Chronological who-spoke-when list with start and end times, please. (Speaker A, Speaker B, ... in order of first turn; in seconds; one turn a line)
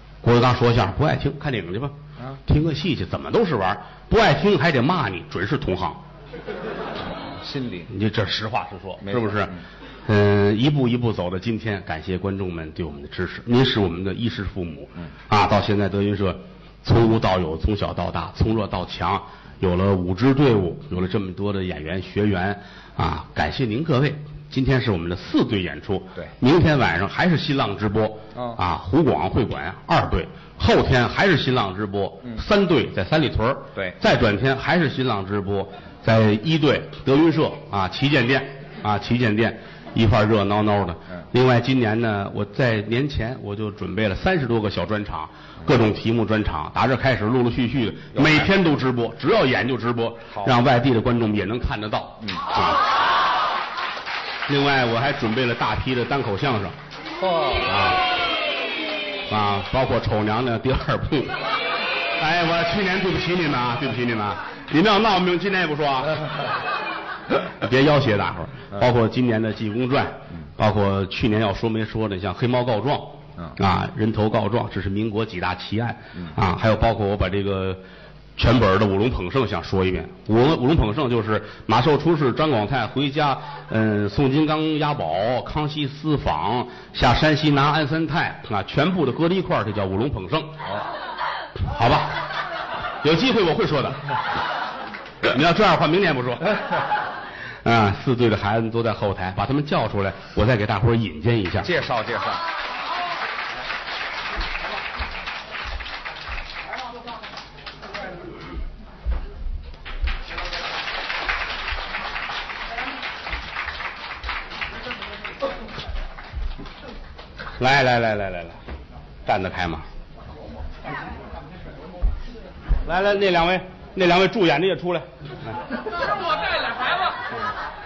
Speaker A: 0.2-1.9
Speaker A: 2.5-6.0
Speaker B: 7.1-7.9
Speaker A: 7.9-52.8
Speaker B: 9.0-9.6
Speaker B: 48.1-48.5
Speaker B: 50.3-50.5
Speaker A: 54.5-56.8
Speaker B: 57.1-57.7
Speaker A: 57.6-58.0
Speaker A: 59.3-61.4
Speaker A: 62.2-66.2
Speaker A: 67.6-77.8
Speaker A: 78.4-90.5
Speaker A: 91.6-92.2
Speaker A: 93.0-94.1
Speaker A: 95.2-96.8
Speaker A: 97.6-101.7
Speaker B: 101.6-102.4
Speaker A: 117.6-118.6
Speaker A: 119.2-119.9
Speaker A: 122.8-125.6